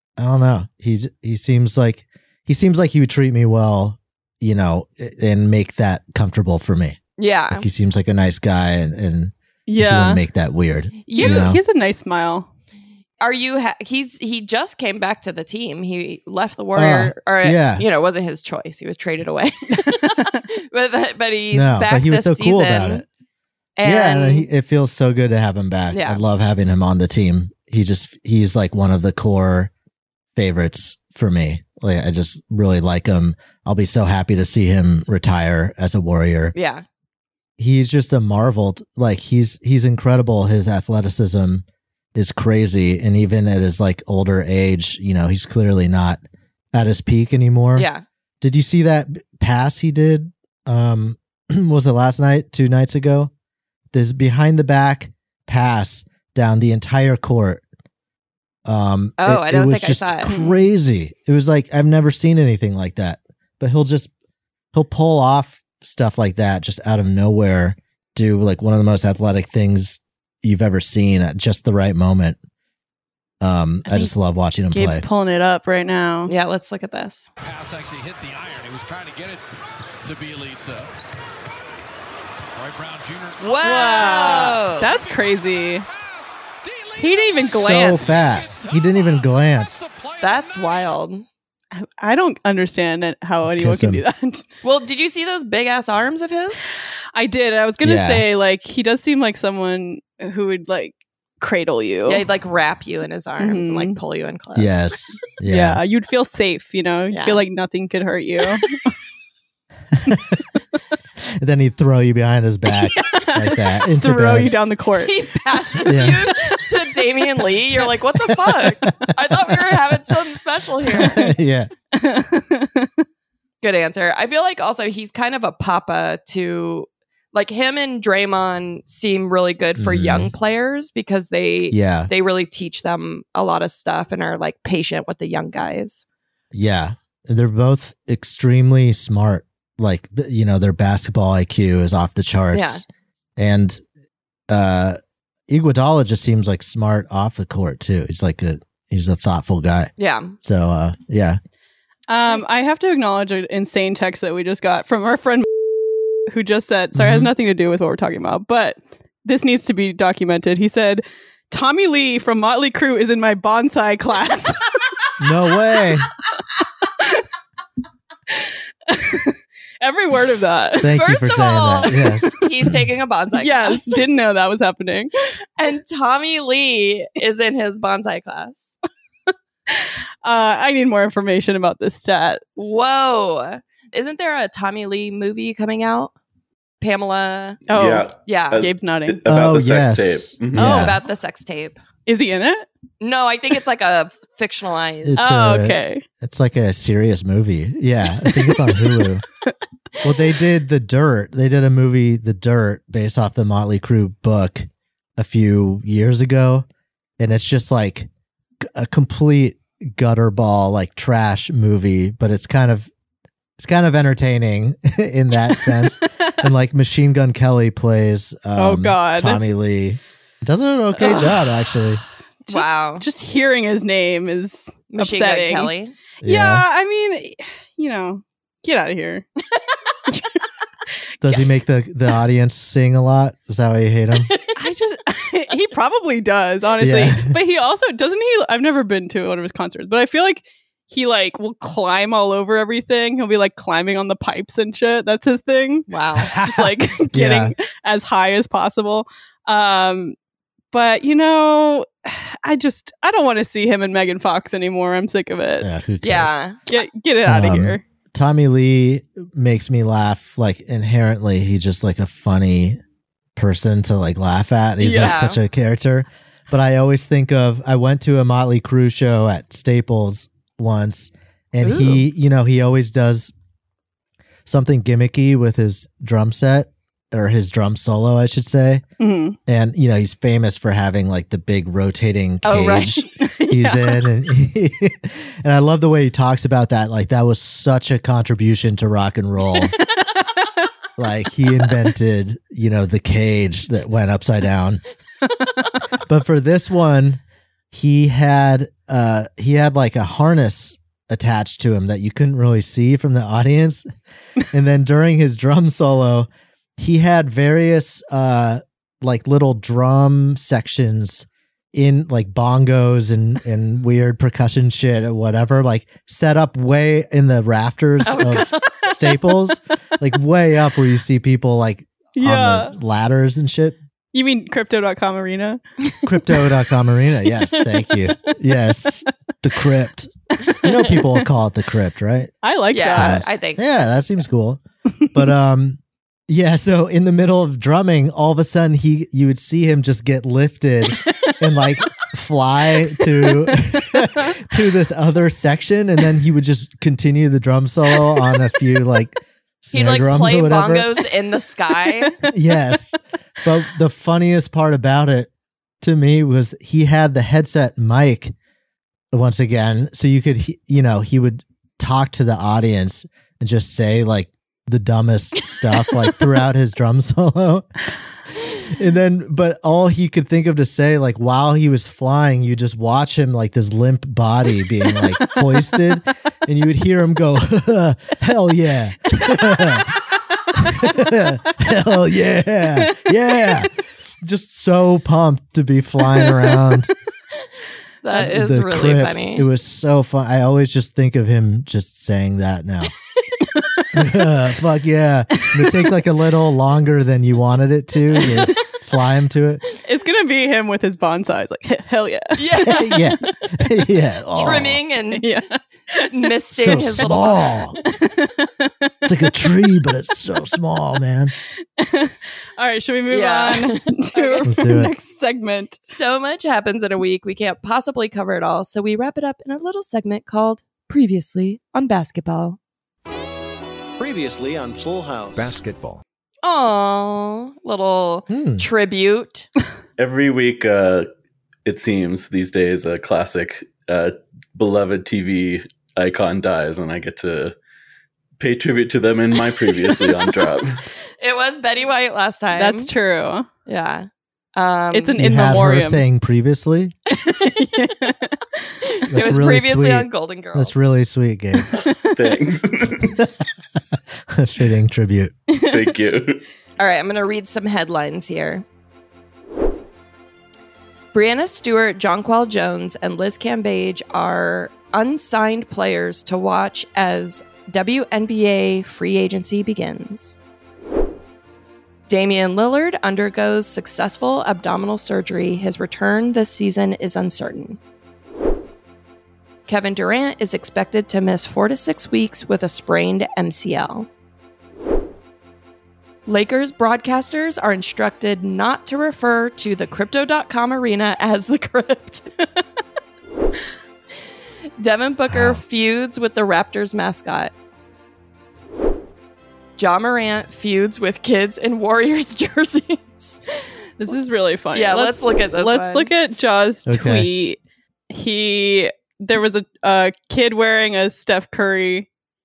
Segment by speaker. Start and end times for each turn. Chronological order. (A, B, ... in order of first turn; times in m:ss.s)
0:00.2-0:07.0 A
0:07.2-0:07.6 B
0:07.5-0:11.6 A
0:09.7-0:10.2 C
0:11.0-0:11.5 B
0:11.1-0:12.5 C
0:13.2-0:23.0 B
0:16.7-0:17.8 A
0:19.9-0:20.4 C
0:21.5-0:23.0 A
0:23.8-0:24.5 B
0:23.8-0:29.7 A
0:25.9-0:26.2 B
0:30.3-0:36.5 A
0:36.5-0:36.8 B
0:37.6-0:41.6 A
0:42.1-0:46.2 A
0:46.7-0:47.9 A
0:47.8-0:48.0 B
0:48.4-0:53.3 A
0:53.9-0:57.6 A
0:58.6-1:04.1 A
0:59.2-1:00.4 B
1:00.3-1:00.6 C
1:04.7-1:12.4 A
1:13.4-1:15.0 A
1:13.8-1:14.1 C
1:14.7-1:16.3 C
1:16.2-1:17.3 B
1:17.4-1:19.4 D
1:20.0-1:20.9 D
1:22.6-1:25.4 D
1:23.4-1:24.9 B
1:23.6-1:25.8 C
1:25.9-1:31.0 D
1:27.0-1:28.2 C
1:27.4-1:29.8 A
1:30.2-1:31.2 B
1:31.7-1:34.4 C
1:33.4-1:34.0 A
1:34.6-1:36.7 B
1:37.1-1:42.2 C
1:37.8-1:38.2 A
1:42.0-1:45.0 B
1:43.4-1:44.0 C
1:44.6-1:45.8 A
1:45.4-1:48.7 C
1:47.1-1:47.4 B
1:49.9-1:50.4 A
1:51.4-1:54.5 A
1:53.0-1:55.1 C
1:55.0-2:01.2 B
1:55.9-1:56.2 A
1:58.4-1:59.5 A
2:00.9-2:01.7 A
2:01.0-2:01.3 C
2:01.9-2:03.0 C
2:03.6-2:16.0 B
2:09.8-2:10.3 A
2:11.7-2:12.1 A
2:16.5-2:22.8 A
2:22.5-2:22.8 B
2:23.4-2:23.8 A
2:24.5-2:31.4 A
2:30.0-2:30.4 B
2:32.1-2:35.5 C
2:36.3-2:44.9 C
2:36.9-2:37.3 A
2:45.2-2:46.1 A
2:48.3-2:51.0 C
2:50.8-2:52.5 A
2:50.9-2:54.0 B
2:53.3-2:55.1 C
2:55.6-2:58.8 B
2:59.7-3:02.4 C
3:02.6-3:06.1 B
3:06.8-3:07.6 B
3:07.7-3:10.9 E
3:07.7-3:09.2 C
3:08.2-3:08.6 B
3:09.2-3:11.0 A
3:10.6-3:11.0 C
3:10.6-3:11.8 B
3:12.0-3:12.6 C
3:13.0-3:15.2 B
3:15.0-3:19.2 A
3:15.2-3:16.0 C
3:18.2-3:18.8 C
3:20.0-3:26.6 A
3:27.2-3:28.1 A
3:28.6-3:32.9 A
3:33.6-3:42.0 A
3:35.7-3:36.3 C
3:38.6-3:39.4 C
3:41.0-3:41.5 C
3:42.4-3:49.2 C
3:42.5-3:43.0 B
3:44.9-3:45.9 B
3:46.2-3:46.6 A
3:50.0-3:50.4 C
3:51.2-3:54.3 A
3:54.3-3:54.6 B
3:54.5-4:10.1 C
3:56.8-3:57.4 A
4:05.9-4:06.3 B
4:06.2-4:07.5 A
4:10.7-4:15.7 C
4:15.6-4:16.4 A
4:16.0-4:16.6 B
4:16.7-4:17.8 C
4:17.2-4:22.8 A
4:23.4-4:33.3 A
4:24.8-4:25.2 C
4:25.0-4:25.4 B
4:34.4-4:38.8 A
4:39.0-4:39.4 C
4:39.5-4:49.7 A
4:42.4-4:43.0 B
4:43.2-4:44.0 C
4:51.0-4:54.8 A
4:56.0-5:03.9 A
5:04.5-5:23.8 A
5:18.0-5:18.8 B
5:22.2-5:22.7 C
5:24.1-5:25.6 C
5:26.0-5:32.3 A
5:32.4-5:33.3 C
5:32.7-5:33.7 B
5:32.9-5:34.6 A
5:35.1-5:50.9 A
5:41.0-5:41.3 C
5:43.1-5:44.3 C
5:48.1-5:48.3 C
5:49.7-5:52.2 B
5:52.3-5:55.3 A
5:55.8-5:58.3 A
5:59.1-6:07.7 A
6:08.4-6:19.9 A
6:20.5-6:26.9 A
6:22.8-6:23.1 C
6:26.2-6:26.6 C
6:28.0-6:29.5 B
6:28.1-6:32.9 A
6:33.6-6:33.9 C
6:33.9-6:39.6 A
6:35.4-6:35.9 C
6:39.8-6:42.4 C
6:42.3-6:43.3 B
6:42.6-6:44.8 A
6:44.3-6:45.3 B
6:45.1-6:46.1 C
6:45.9-6:47.5 B
6:46.5-6:47.8 A
6:47.9-6:49.5 C
6:49.0-6:51.3 A
6:51.8-6:55.8 C
6:53.1-6:54.5 B
6:54.4-6:54.9 A
6:55.8-7:02.6 B
7:04.0-7:06.0 F
7:06.4-7:09.5 B
7:08.3-7:08.7 A
7:10.0-7:11.1 E
7:11.6-7:17.5 E
7:18.4-7:20.8 E
7:21.2-7:22.9 B
7:22.5-7:23.5 C
7:23.7-7:25.2 B
7:24.9-7:26.0 C
7:25.1-7:26.9 A
7:27.1-7:28.7 C
7:28.8-7:30.8 B
7:29.1-7:31.8 A
7:31.8-7:32.3 C
7:32.1-7:33.2 E
7:33.9-7:35.3 A
7:35.5-7:35.9 C
7:35.6-7:36.4 E
7:36.8-7:38.6 B
7:41.1-7:50.3 B
7:52.1-7:57.8 B
7:59.7-8:04.1 B
8:06.2-8:12.3 B
8:14.8-8:17.5 B
8:15.3-8:15.6 A
8:19.8-8:23.4 B
8:24.0-8:27.6 C
8:24.7-8:26.1 B
8:26.8-8:27.3 A
8:28.1-8:32.1 C